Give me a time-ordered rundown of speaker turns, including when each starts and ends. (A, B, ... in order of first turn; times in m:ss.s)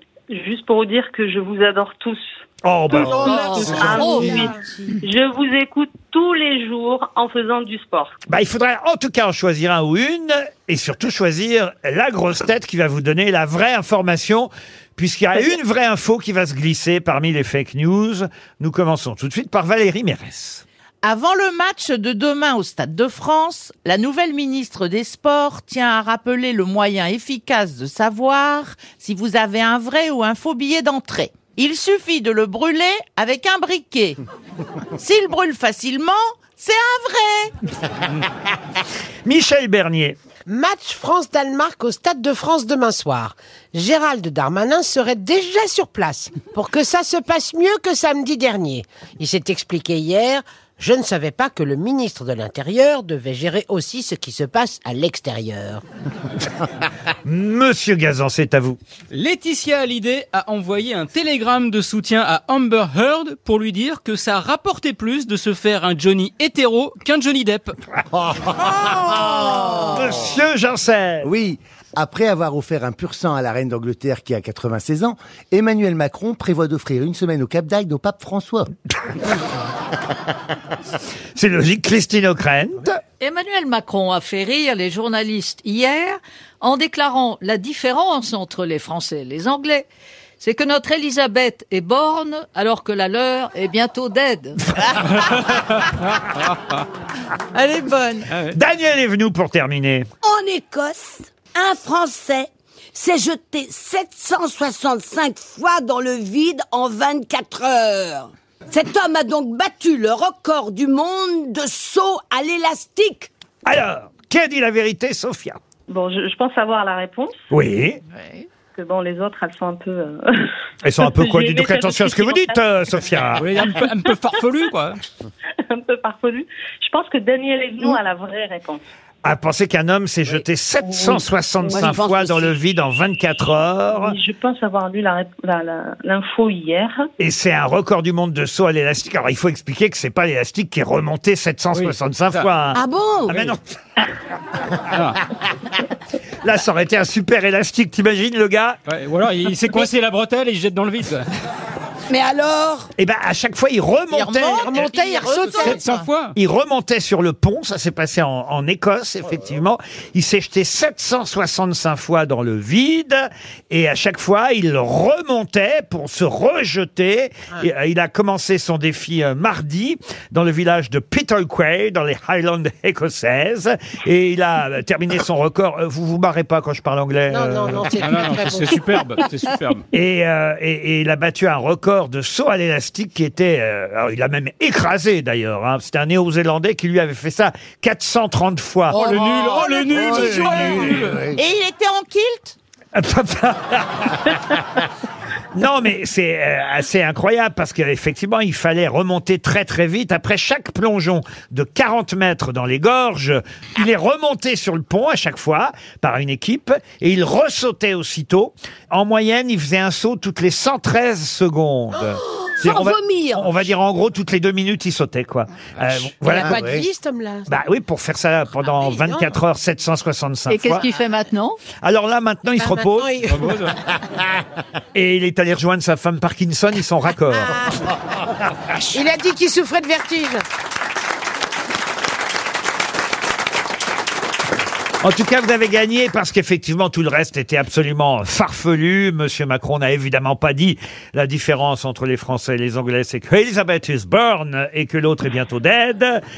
0:00.3-0:03.2 A
0:02.6-0:04.3 B
0:02.9-0:03.4 C
0:03.1-0:04.6 D
0:03.2-0:04.4 E
0:03.8-0:08.1 A
0:08.3-0:20.6 B
0:21.0-0:34.2 F
0:35.0-0:37.5 F
0:39.2-0:40.2 B
0:40.5-0:55.8 D
0:57.2-0:58.8 B
0:59.1-1:07.8 G
1:08.1-1:10.0 C
1:09.4-1:11.3 B
1:11.2-1:18.7 C
1:21.3-1:23.0 B
1:23.2-1:29.9 E
1:30.4-1:34.6 E
1:35.0-1:36.8 G
1:37.5-1:38.3 F
1:38.3-1:38.6 G
1:38.5-1:40.1 B
1:40.2-1:53.3 H
1:53.6-1:55.6 B
1:55.9-1:57.4 A
1:57.5-1:58.0 B
1:58.7-2:02.7 A
2:00.8-2:03.7 B
2:03.4-2:05.0 G
2:05.7-2:08.8 A
2:09.2-2:14.2 B
2:10.8-2:11.8 A
2:11.7-2:12.5 H
2:13.9-2:17.1 A
2:17.2-2:23.6 B
2:21.7-2:22.5 G
2:22.7-2:23.4 H
2:24.9-2:25.2 G
2:26.4-2:28.8 B
2:28.9-2:31.3 G
2:32.1-2:32.9 H
2:33.0-2:34.9 B
2:34.1-2:36.1 F
2:34.5-2:35.9 D
2:35.6-2:36.4 G
2:36.3-2:58.0 B
2:57.3-2:59.1 D
2:58.0-2:59.8 G
2:59.9-3:09.1 B
3:08.9-3:11.3 G
3:08.9-3:11.4 C
3:09.5-3:10.7 F
3:11.3-3:12.6 F
3:12.9-3:14.6 B
3:15.5-3:36.6 B
3:32.6-3:33.6 H
3:35.8-3:36.0 G
3:36.2-3:37.5 D
3:36.4-3:36.8 C
3:37.5-3:40.8 B
3:38.7-3:39.3 D
3:40.5-3:41.6 E
3:41.8-3:43.2 B
3:42.6-3:43.7 D
3:43.3-3:43.8 G
3:44.9-3:47.6 B
3:47.3-3:47.9 D
3:48.9-3:50.4 D
3:55.0-4:06.2 B